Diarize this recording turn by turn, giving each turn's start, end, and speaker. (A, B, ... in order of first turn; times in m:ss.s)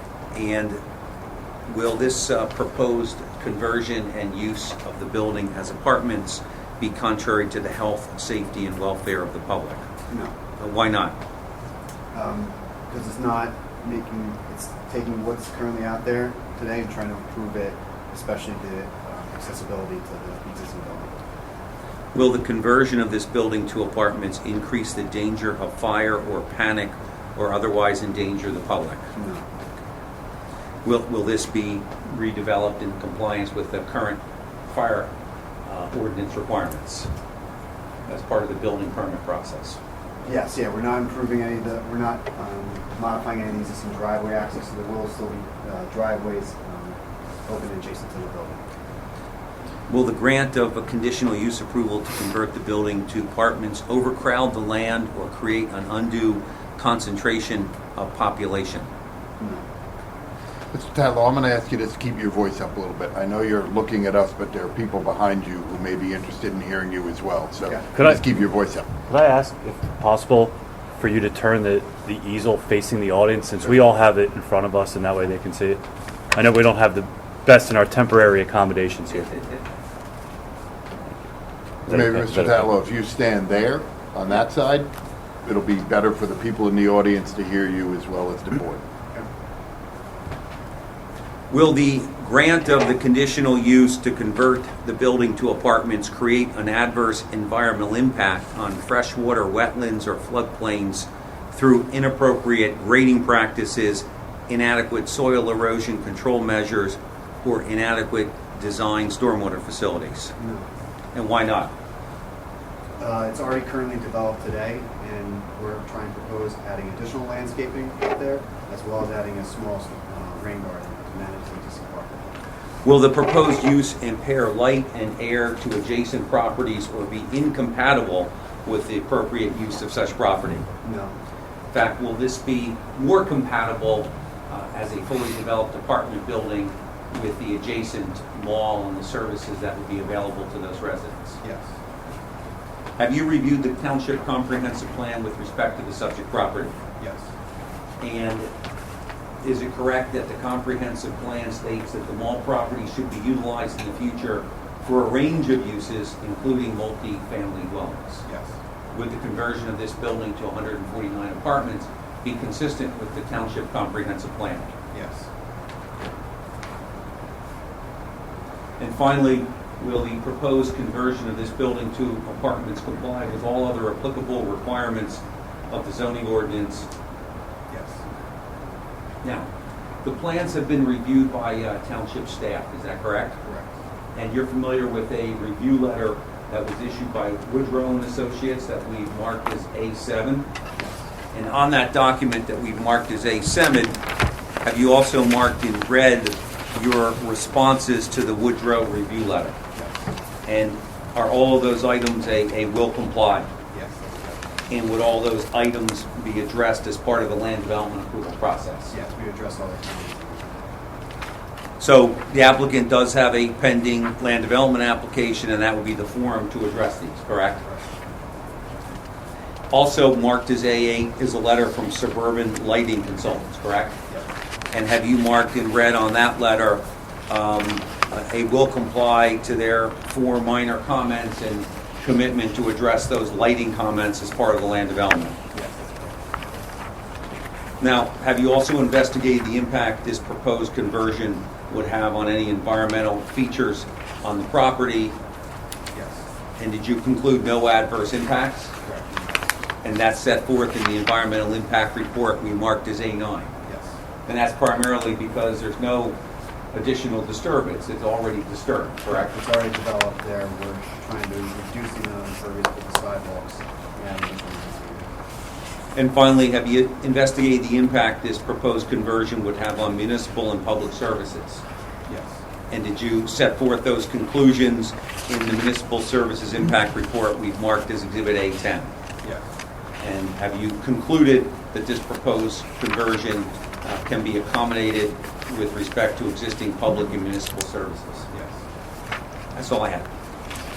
0:00.3-0:00.8 A
0:01.7-0:09.8 A
0:10.6-0:11.2 A
0:12.1-0:21.1 B
0:22.1-0:29.1 A
0:29.2-0:29.5 B
0:30.8-0:35.1 A
0:35.6-0:37.1 A
0:38.1-0:39.8 A
0:40.2-0:48.6 B
0:49.9-0:58.9 A
1:00.7-1:08.8 C
1:08.0-1:08.2 D
1:09.1-1:15.8 D
1:16.3-1:19.3 D
1:19.1-1:19.6 A
1:21.9-1:22.7 D
1:21.9-1:24.9 C
1:25.4-1:28.8 C
1:31.5-1:50.3 A
1:50.4-1:50.7 B
1:51.1-1:51.7 A
1:53.0-2:02.4 B
2:02.8-2:10.6 A
2:10.8-2:11.1 B
2:11.7-2:21.4 A
2:21.4-2:21.7 B
2:23.0-2:26.8 A
2:28.0-2:28.5 A
2:29.4-2:38.2 A
2:38.2-2:38.5 B
2:38.9-2:44.7 A
2:44.9-2:45.3 B
2:48.8-2:56.9 A
2:57.7-2:58.0 B
2:59.2-2:59.5 A
3:00.0-3:03.4 A
3:03.4-3:03.7 B
3:04.1-3:10.5 A
3:11.3-3:14.0 A
3:14.6-3:19.6 A
3:20.4-3:23.5 A
3:23.7-3:24.4 B
3:24.7-3:28.9 A
3:28.9-3:30.7 B
3:31.8-3:37.6 A
3:39.7-3:44.0 A
3:44.7-3:55.4 A
3:55.5-3:56.2 B
3:57.8-4:05.2 A
4:05.9-4:06.2 B
4:06.6-4:08.7 A
4:08.8-4:09.3 B
4:09.8-4:13.5 A
4:13.6-4:13.9 B
4:14.2-4:16.2 A
4:16.7-4:19.3 A
4:19.1-4:25.1 B
4:25.9-4:31.6 A
4:32.1-4:32.4 B
4:32.7-4:38.9 A
4:40.0-4:48.3 A
4:48.3-4:48.6 B
4:49.5-4:50.1 A